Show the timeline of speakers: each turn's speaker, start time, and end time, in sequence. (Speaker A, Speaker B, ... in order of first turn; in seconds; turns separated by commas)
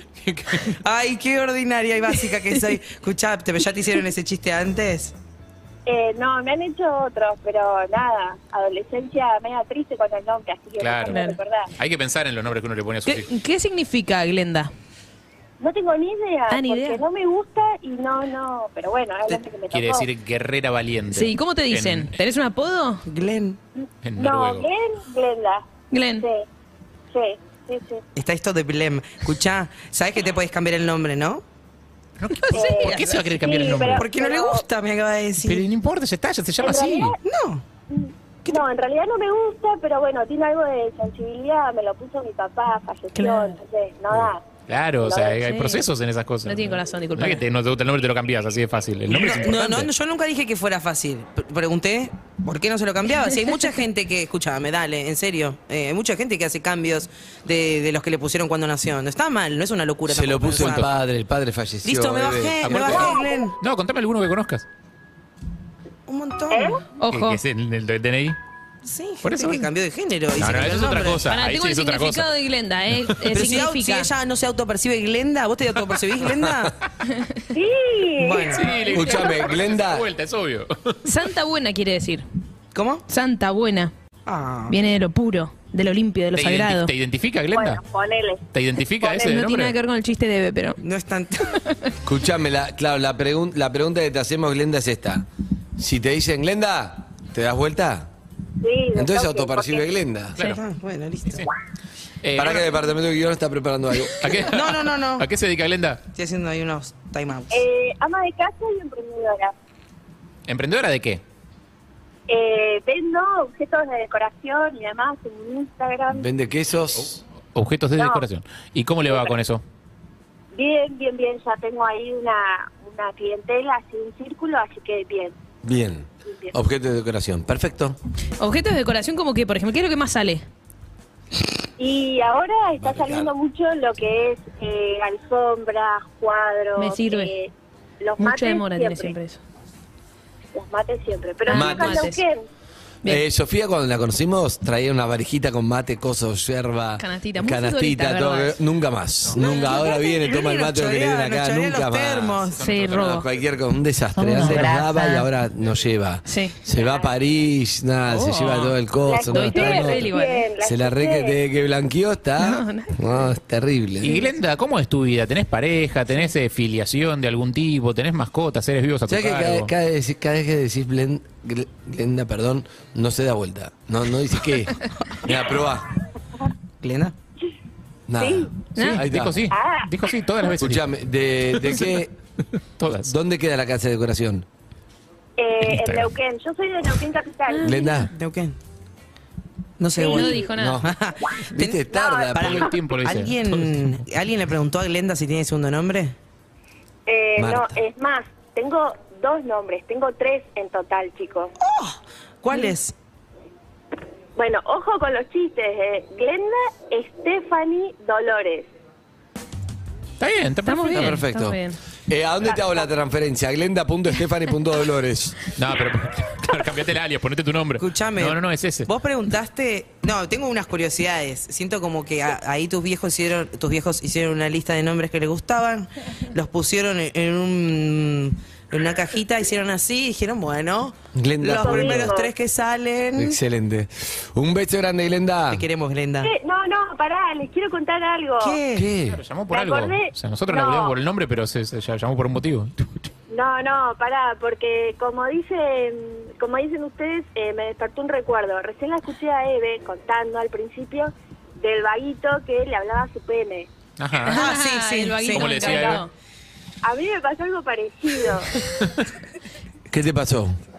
Speaker A: 0.2-0.7, Speaker B: 0.6-5.1, Speaker C: 5.8-11.7, Speaker A: 10.8-11.2, Speaker D: 11.1-11.4, Speaker A: 11.8-13.3, Speaker D: 13.1-14.7, Speaker C: 15.6-20.1, Speaker D: 16.5-17.0, Speaker A: 19.7-22.1, Speaker D: 21.1-23.0, Speaker B: 23.1-23.6, Speaker C: 23.8-25.6, Speaker A: 24.0-24.7, Speaker D: 25.9-26.2, Speaker C: 26.2-26.5, Speaker C: 27.1-28.0, Speaker B: 28.1-31.4, Speaker A: 32.2-34.0, Speaker C: 32.5-34.6, Speaker B: 32.6-33.2, Speaker B: 33.9-35.6, Speaker A: 35.4-37.2, Speaker C: 36.6-37.2, Speaker B: 37.2-37.6, Speaker C: 37.9-44.4, Speaker D: 43.1-43.5, Speaker A: 44.7-49.9, Speaker C: 45.0-45.4, Speaker D: 45.4-45.9, Speaker D: 46.4-47.4, Speaker B: 49.1-60.9, Speaker E: 60.1-62.9, Speaker A: 60.6-60.9, Speaker B: 61.8-63.6, Speaker A: 62.6-64.7, Speaker C: 62.8-63.3, Speaker B: 66.1-66.8, Speaker C: 66.5-66.8, Speaker D: 67.0-67.4, Speaker A: 67.1-68.4, Speaker B: 68.8-71.3, Speaker A: 69.2-69.7, Speaker A: 70.3-72.3, Speaker D: 71.3-74.1, Speaker B: 73.3-76.7, Speaker E: 76.4-76.7, Speaker D: 77.1-77.4, Speaker C: 77.5-78.6, Speaker B: 78.2-78.8, Speaker A: 78.5-81.0, Speaker D: 78.8-79.3, Speaker E: 78.8-80.1, Speaker D: 81.0-82.2, Speaker B: 82.7-83.0, Speaker D: 83.1-83.9, Speaker B: 84.2-84.8, Speaker D: 84.7-86.9, Speaker A: 86.3-87.8, Speaker C: 87.5-88.4, Speaker A: 88.5-89.8, Speaker D: 89.1-90.8, Speaker B: 90.8-91.6, Speaker D: 91.6-91.9, Speaker E: 92.0-95.2, Speaker E: 95.8-98.1, Speaker C: 98.6-99.9, Speaker E: 98.9-100.4, Speaker B: 100.4-101.5, Speaker A: 102.2-102.8, Speaker E: 102.3-104.4, Speaker A: 104.2-106.0, Speaker B: 104.4-105.3, Speaker B: 106.1-107.6, Speaker C: 107.5-109.5, Speaker A: 110.5-111.2, Speaker C: 112.3-116.2, Speaker E: 116.1-117.2, Speaker A: 117.5-119.6, Speaker C: 118.0-118.2, Speaker C: 120.5-125.3, Speaker E: 125.6-128.0, Speaker C: 126.3-126.5, Speaker D: 128.4-130.4, Speaker C: 131.8-139.1, Speaker E: 132.8-133.3, Speaker D: 136.8-137.3, Speaker D: 138.2-139.4, Speaker C: 140.5-142.4, Speaker D: 141.4-142.2, Speaker E: 141.5-142.1, Speaker E: 143.1-152.4, Speaker D: 147.0-148.6, Speaker D: 149.4-149.7, Speaker C: 149.4-150.3, Speaker B: 150.2-152.6, Speaker A: 152.5-153.2, Speaker D: 152.6-153.2, Speaker E: 152.9-164.2, Speaker D: 154.2-155.2, Speaker D: 156.2-156.6, Speaker C: 156.8-157.1, Speaker D: 158.1-158.7, Speaker C: 159.1-161.3, Speaker D: 159.2-160.5, Speaker D: 162.4-163.0, Speaker A: 164.0-169.7, Speaker E: 169.1-175.9, Speaker B: 176.8-177.1, Speaker E: 178.1-179.5, Speaker C: 178.2-178.5, Speaker D: 178.7-179.0, Speaker A: 178.7-180.8, Speaker C: 179.5-179.9, Speaker E: 180.6-182.1, Speaker A: 181.6-182.0, Speaker A: 182.8-183.1, Speaker E: 182.9-184.4, Speaker C: 185.4-187.8, Speaker A: 185.6-186.1, Speaker D: 187.5-188.0, Speaker E: 187.6-188.1, Speaker B: 188.1-188.5, Speaker B: 189.8-191.8, Speaker C: 189.9-190.5, Speaker D: 190.0-190.9, Speaker E: 190.6-190.9, Speaker C: 191.4-192.6, Speaker E: 191.5-192.7, Speaker A: 192.3-194.0, Speaker B: 192.3-196.1, Speaker C: 197.1-201.5, Speaker E: 197.3-197.8, Speaker B: 201.6-202.9, Speaker C: 204.3-208.7, Speaker A: 210.2-211.2, Speaker D: 210.6-211.8, Speaker E: 210.9-215.4, Speaker A: 215.5-218.9, Speaker B: 217.8-233.4, Speaker E: 231.1-232.2, Speaker C: 231.4-232.3, Speaker E: 233.2-235.7, Speaker B: 235.5-236.3, Speaker C: 236.2-238.6, Speaker B: 238.4-238.9, Speaker E: 238.7-239.2, Speaker A: 239.1-243.1, Speaker C: 239.5-240.9, Speaker C: 243.3-253.7, Speaker A: 254.0-254.4, Speaker B: 254.3-255.7, Speaker D: 254.3-256.1, Speaker A: 255.3-256.0, Speaker C: 256.8-258.6, Speaker E: 259.9-260.6